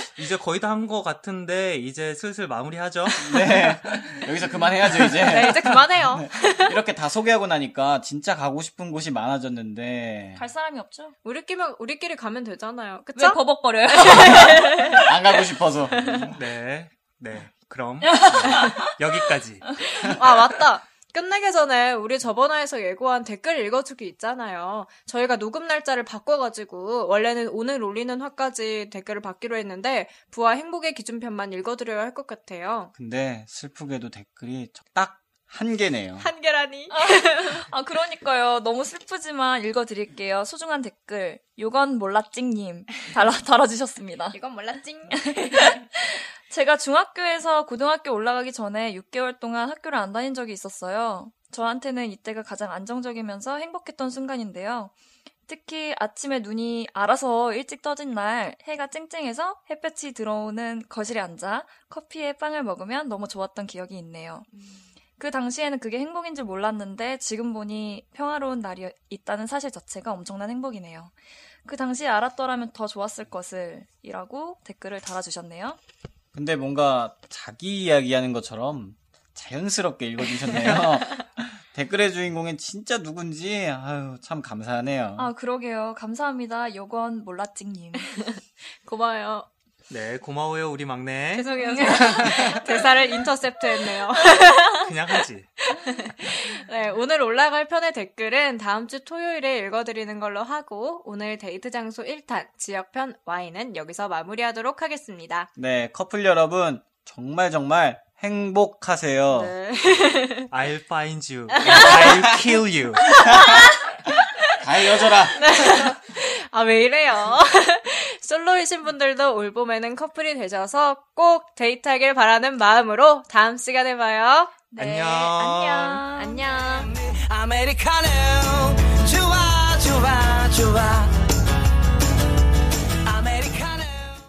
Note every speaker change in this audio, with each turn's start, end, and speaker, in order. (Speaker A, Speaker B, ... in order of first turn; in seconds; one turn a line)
Speaker A: 0.2-3.6
Speaker B: 3.2-10.4
Speaker C: 5.1-6.8
Speaker D: 10.4-11.1
Speaker C: 11.2-15.3
Speaker D: 13.2-15.0
Speaker B: 14.1-16.3
Speaker C: 16.0-16.3
Speaker A: 16.3-19.8
Speaker D: 18.0-18.9
Speaker C: 20.0-32.9
Speaker B: 33.0-36.3
Speaker C: 36.2-37.7
Speaker D: 36.9-44.4
Speaker C: 44.3-45.8
Speaker D: 45.1-54.9
Speaker D: 55.5-64.5
Speaker D: 65.2-71.1
Speaker D: 71.7-75.8
Speaker B: 76.3-85.3
Speaker D: 85.2-88.1
Speaker C: 88.8-89.5
Speaker A: 89.9-92.4
Speaker C: 91.3-95.0
Speaker D: 91.7-92.6
Speaker A: 94.8-95.5
Speaker C: 95.7-105.5
Speaker B: 105.6-109.5
Speaker C: 109.3-110.5
Speaker A: 110.5-113.2
Speaker C: 111.7-112.2
Speaker C: 113.2-113.6
Speaker B: 114.6-115.9
Speaker C: 115.2-124.6
Speaker D: 124.7-126.4
Speaker A: 124.8-126.1
Speaker C: 125.8-127.0
Speaker E: 126.9-131.2
Speaker E: 133.1-134.2